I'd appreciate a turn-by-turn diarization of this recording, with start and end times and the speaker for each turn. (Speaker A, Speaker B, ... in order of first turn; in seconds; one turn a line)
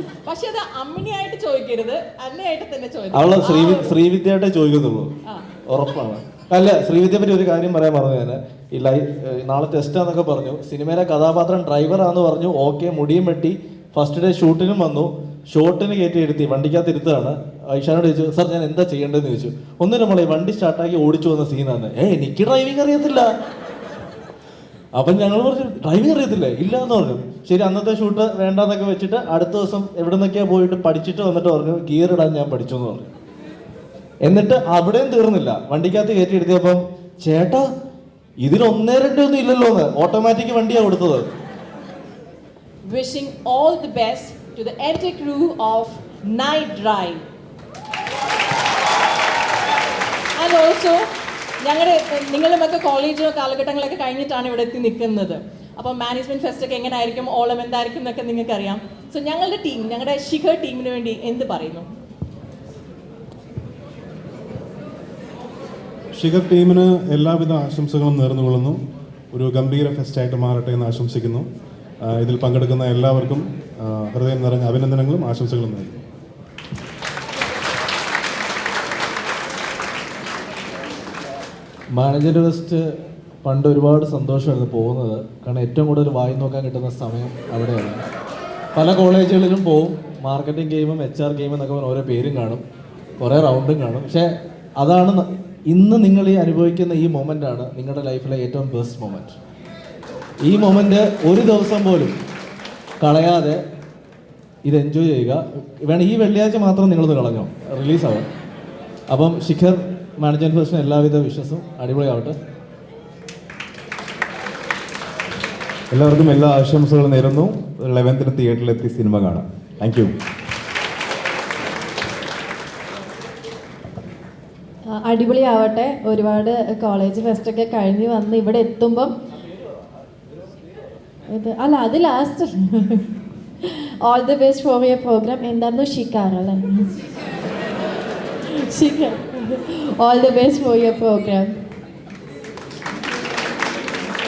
Speaker A: 0.2-4.0
Speaker B: 3.1-5.1
Speaker B: 5.7-23.3
Speaker B: 25.0-33.1
Speaker B: 34.2-37.7
Speaker B: 38.4-41.3
Speaker A: 42.9-47.2
Speaker A: 50.4-51.1
Speaker A: 51.6-61.9
Speaker C: 66.1-68.8
Speaker C: 69.3-71.5
Speaker C: 72.0-76.0
Speaker B: 82.0-82.9
Speaker B: 83.4-88.1
Speaker B: 88.8-92.6
Speaker B: 93.2-99.4
Speaker B: 100.4-102.2
Speaker B: 103.0-103.6
Speaker B: 104.7-108.3
Speaker B: 109.1-112.3
Speaker D: 115.9-120.1
Speaker E: 124.9-129.1
Speaker E: 131.3-133.1
Speaker E: 133.6-136.9
Speaker E: 138.5-141.5